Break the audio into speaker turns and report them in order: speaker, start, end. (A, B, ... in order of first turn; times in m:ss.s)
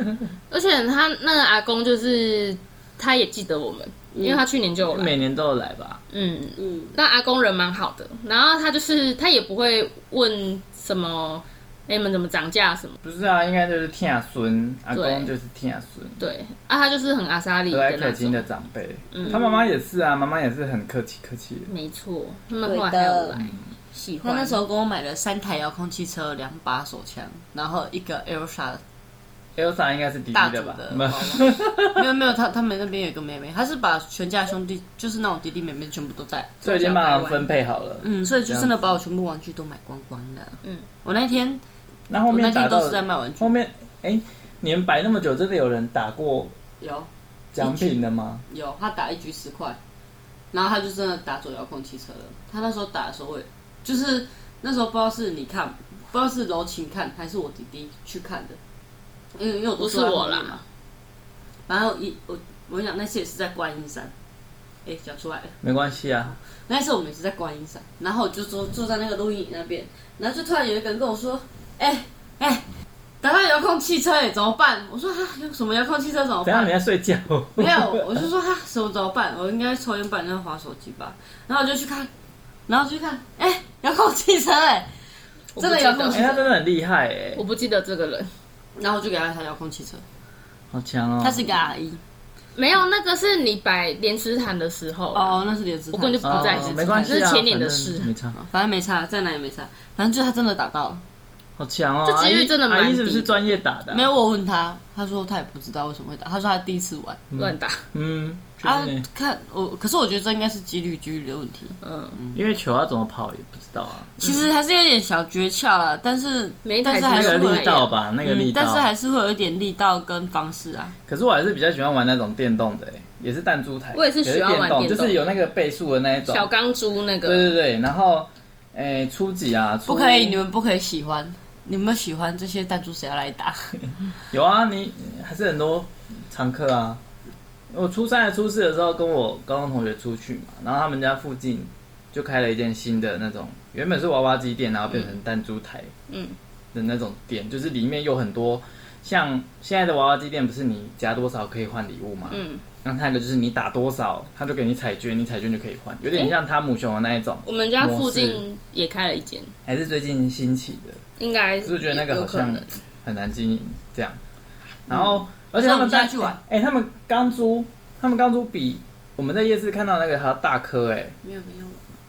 0:00.5-0:05.1 A
0:04.1-0:04.4 B
0:04.8-0:06.0 C
0:06.1-0:13.0 A
0:06.6-0:06.9 B
0:13.0-0:16.2 C
0:14.9-0:15.3 A
0:16.2-0:18.4 A
0:17.7-0:21.7 C
0:19.1-0:19.4 A
0:19.2-0:19.6 B
0:21.7-0:24.6 A
0:22.6-0:23.4 B
0:24.2-0:28.8 B
0:29.6-0:32.1 C
0:30.3-0:36.7 B
0:36.6-0:38.7 C
0:36.6-0:37.4 A
0:38.0-0:41.6 B
0:42.1-0:46.6 C
0:42.3-0:43.5 B
0:46.8-0:49.8 B
0:47.5-0:48.4 C
0:50.5-0:58.6 B
0:59.3-1:00.6 B
0:59.8-1:00.6 A
1:01.7-1:04.1 B
1:04.8-1:05.6 B
1:05.6-1:06.3 C
1:06.7-1:12.6 B
1:13.2-1:16.7 B
1:16.4-1:18.2 C
1:17.6-1:22.1 B
1:22.7-1:24.9 B
1:25.6-1:26.3 A
1:25.6-1:26.5 B
1:26.1-1:27.4 C
1:27.4-1:28.3 A
1:28.8-1:30.0 B
1:30.7-1:31.4 C
1:31.2-1:32.0 B
1:32.6-1:38.1 A
1:35.1-1:37.3 B
1:36.2-1:38.4 C
1:38.4-1:41.0 B
1:41.6-1:44.1 C
1:42.0-1:43.4 A
1:43.9-1:47.2 B
1:47.3-1:49.0 C
1:47.4-1:47.8 A
1:48.6-1:52.4 B
1:51.8-1:52.2 A
1:52.3-1:54.3 C
1:54.2-2:00.9 B
1:56.6-1:57.9 A
1:57.0-1:58.9 C
2:01.1-2:06.5 C
2:03.9-2:05.2 A
2:06.3-2:07.5 A
2:07.2-2:10.4 C
2:09.8-2:13.8 B
2:14.3-2:17.0 C
2:17.7-2:25.9 C
2:26.1-2:26.4 A
2:26.7-2:38.4 C
2:32.3-2:32.6 A
2:37.4-2:39.5 A
2:39.6-2:41.0 C
2:41.2-2:42.7 A
2:41.6-2:44.2 C
2:44.9-2:51.2 C
2:44.9-2:46.4 B
2:51.2-2:51.8 B